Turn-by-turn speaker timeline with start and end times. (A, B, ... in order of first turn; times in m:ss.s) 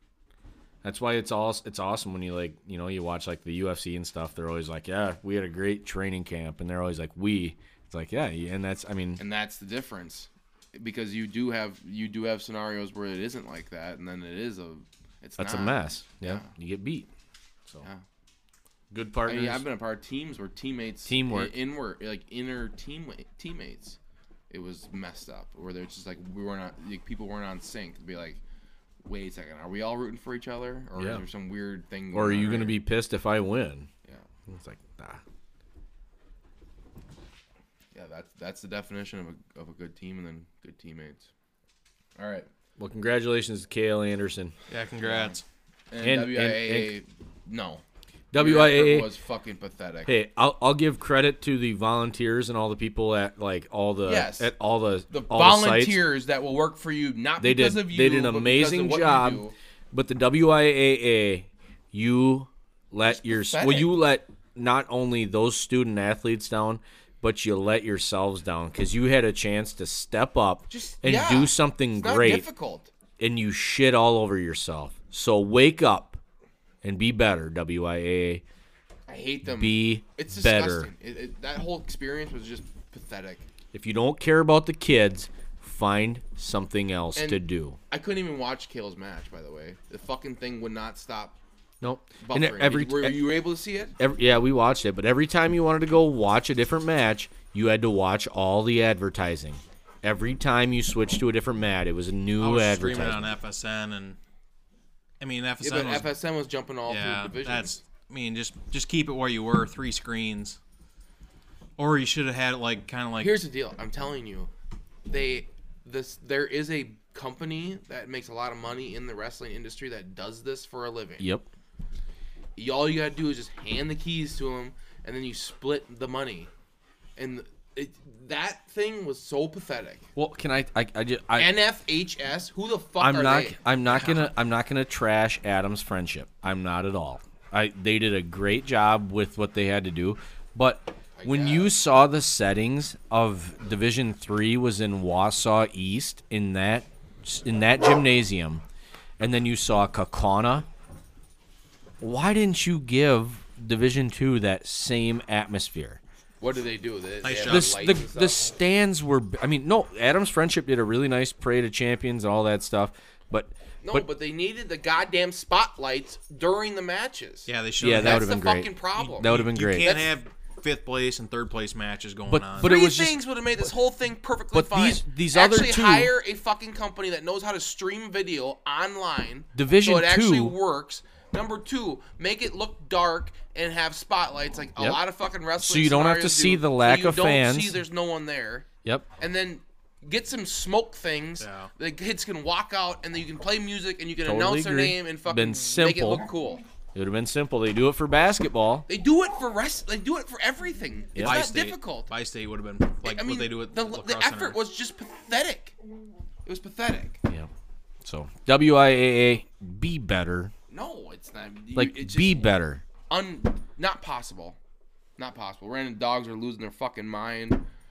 0:00.8-0:09.2 A
0:09.2-0:16.5 B
0:15.4-0:17.1 A
0:18.9-0:19.6 A
0:19.2-0:24.0 B
0:21.1-0:21.5 A
0:24.5-0:28.4 B
0:29.0-0:32.8 B
0:31.0-0:31.2 A
0:32.1-0:33.9 A
0:34.5-0:35.2 A
0:37.9-0:41.3 B
0:42.2-0:42.5 B
0:42.8-0:44.6 A
0:44.7-0:45.4 C
0:45.0-0:45.4 B
0:45.9-0:47.8 B
0:46.0-0:46.9 A
0:48.3-0:49.1 A
0:48.4-0:50.1 B
0:50.1-0:56.0 A
0:54.0-0:54.5 B
0:55.1-0:59.6 B
0:57.4-1:12.5 A
1:03.0-1:04.0 B
1:10.7-1:12.9 B
1:13.2-1:16.2 A
1:16.8-1:18.4 A
1:19.1-1:23.5 B
1:19.4-1:20.9 A
1:23.7-1:27.8 A
1:27.2-1:31.4 B
1:31.8-1:33.4 A
1:32.2-1:34.0 B
1:34.0-1:43.4 A
1:42.4-1:44.2 C
1:45.2-1:46.1 C
1:45.6-1:47.8 B
1:46.9-1:50.6 C
1:51.8-1:53.4 C
1:53.2-1:54.5 B
1:55.1-2:01.3 B
2:01.2-2:01.5 A
2:02.6-2:06.5 B
2:07.2-2:10.1 B
2:10.2-2:11.6 A
2:11.4-2:13.6 B
2:13.0-2:28.6 A
2:13.9-2:14.3 C
2:21.2-2:21.8 B
2:29.2-2:30.7 A
2:32.0-2:36.0 A
2:36.4-2:38.4 B
2:37.2-2:37.8 C
2:37.4-2:44.1 A
2:43.8-2:50.1 B
2:47.5-2:48.3 C
2:47.8-2:49.9 A
2:49.0-2:52.7 C
2:52.3-2:53.2 A
2:52.6-3:08.7 B
2:54.5-2:56.1 A
2:59.6-3:00.6 A
3:04.8-3:05.0 A
3:05.6-3:07.8 A
3:09.2-3:16.6 B
3:11.4-3:11.7 C
3:14.2-3:16.3 A
3:16.9-3:18.9 A
3:18.9-3:22.1 B
3:21.2-3:21.4 A
3:21.2-3:24.6 C
3:23.0-3:25.8 B
3:26.4-3:27.2 B
3:28.0-3:30.5 A
3:30.7-3:32.5 B
3:31.8-3:32.8 A
3:33.1-3:34.6 B
3:35.2-3:37.7 B